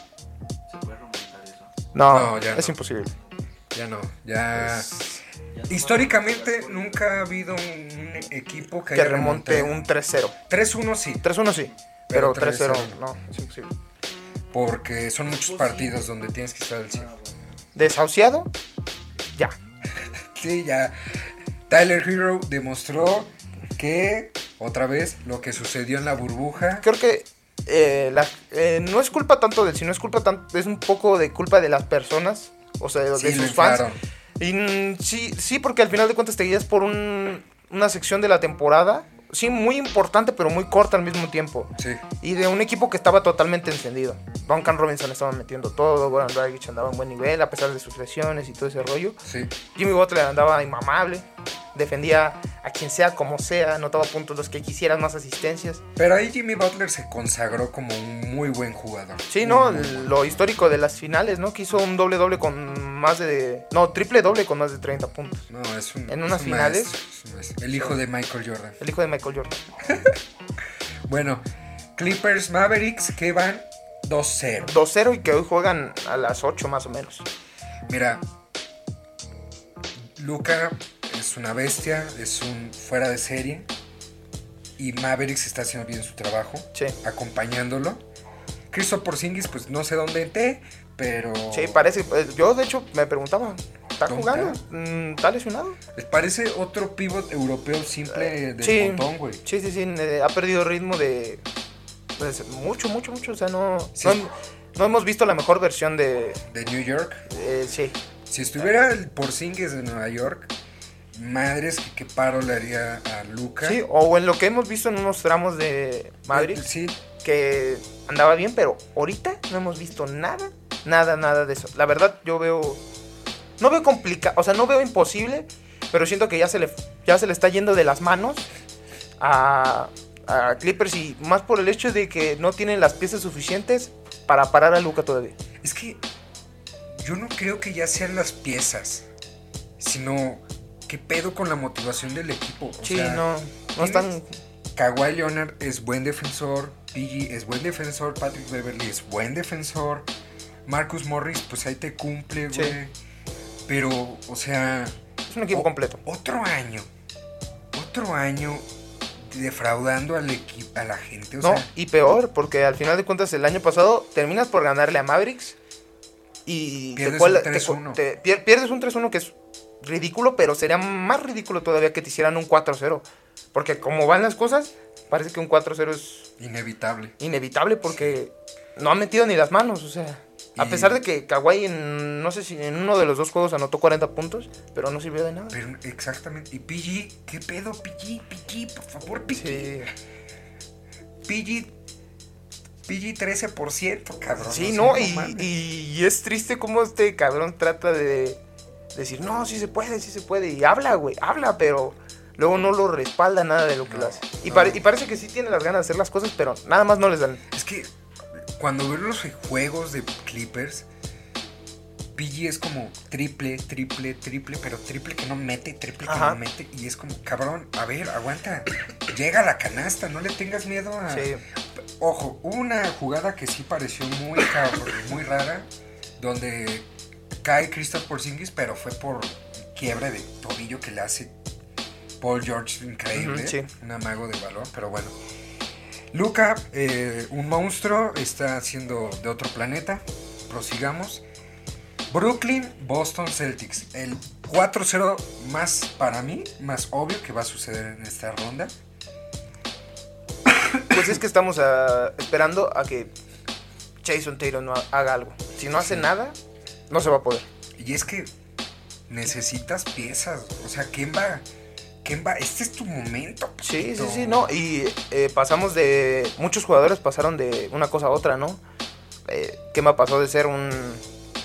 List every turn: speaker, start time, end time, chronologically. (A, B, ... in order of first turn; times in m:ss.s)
0:00.7-0:01.9 A
0:01.9-0:03.1 B
0:02.1-0:02.8 C
0:03.7-0:05.0 C
0:04.6-0:05.2 B
0:05.5-0:07.3 A
0:05.7-0:09.8 C
0:08.9-0:10.4 B
0:10.5-0:11.3 C
0:11.2-0:13.7 B
0:12.1-0:13.0 C
0:14.5-0:17.1 C
0:15.5-0:16.0 A
0:17.8-0:18.5 B
0:20.0-0:21.0 C
0:21.7-0:26.9 C
0:26.8-0:33.9 B
0:33.2-0:34.0 C
0:34.4-0:49.2 B
0:41.8-0:42.0 C
0:49.2-0:49.6 C
0:49.7-0:55.8 B
0:56.0-1:00.4 C
0:59.3-1:05.5 B
1:05.5-1:08.8 C
1:06.1-1:06.9 B
1:08.8-1:09.6 B
1:09.9-1:10.2 C
1:11.1-1:11.4 C
1:12.0-1:14.7 C
1:14.6-1:17.3 B
1:17.9-1:18.2 C
1:20.2-1:23.7 C
1:24.8-1:28.0 C
1:28.7-1:31.9 C
1:31.5-1:35.8 B
1:34.1-1:34.6 C
1:36.0-1:39.4 C
1:38.2-1:41.4 B
1:42.2-1:46.4 B
1:44.0-1:44.2 C
1:46.5-1:47.2 C
1:47.3-1:48.0 B
1:48.3-1:50.5 C
1:51.1-1:53.8 C
1:53.6-1:56.7 B
1:56.3-1:57.0 C
1:57.2-2:02.8 B
2:03.6-2:08.5 B
2:09.2-2:15.4 B
2:15.6-2:16.0 C
2:16.9-2:19.1 C
2:19.8-2:23.3 C
2:22.8-2:24.3 B
2:23.8-2:24.2 C
2:24.8-2:30.1 C
2:30.7-2:33.0 C
2:33.7-2:35.0 C
2:35.3-2:36.0 B
2:35.5-2:36.9 C
2:37.7-2:41.7 C
2:41.4-2:45.6 B
2:46.5-2:56.3 B
2:47.0-2:48.0 C
2:56.4-2:57.2 C
2:57.2-3:05.6 B
2:57.9-2:58.2 C
3:00.6-3:01.0 C
3:05.5-3:09.8 C
3:09.3-3:09.9 B
3:11.2-3:11.7 C
3:12.9-3:15.5 C
3:14.4-3:18.4 B
3:18.9-3:27.4 B
3:23.8-3:24.8 C
3:27.5-3:30.9 C
3:32.2-3:46.9 C
3:36.0-3:36.4 B
3:41.1-3:41.4 B
3:47.4-3:51.4 C
3:52.2-3:55.2 C
3:53.1-3:53.7 B
3:56.1-4:01.2 C
4:02.1-4:08.8 C
4:10.5-4:11.1 C
4:10.9-4:13.1 B
4:14.0-4:16.4 B
4:15.7-4:16.1 C
4:16.9-4:17.5 B
4:17.8-4:18.3 C
4:19.1-4:21.5 C
4:22.0-4:24.5 C
4:23.6-4:28.6 B
4:29.3-4:31.0 B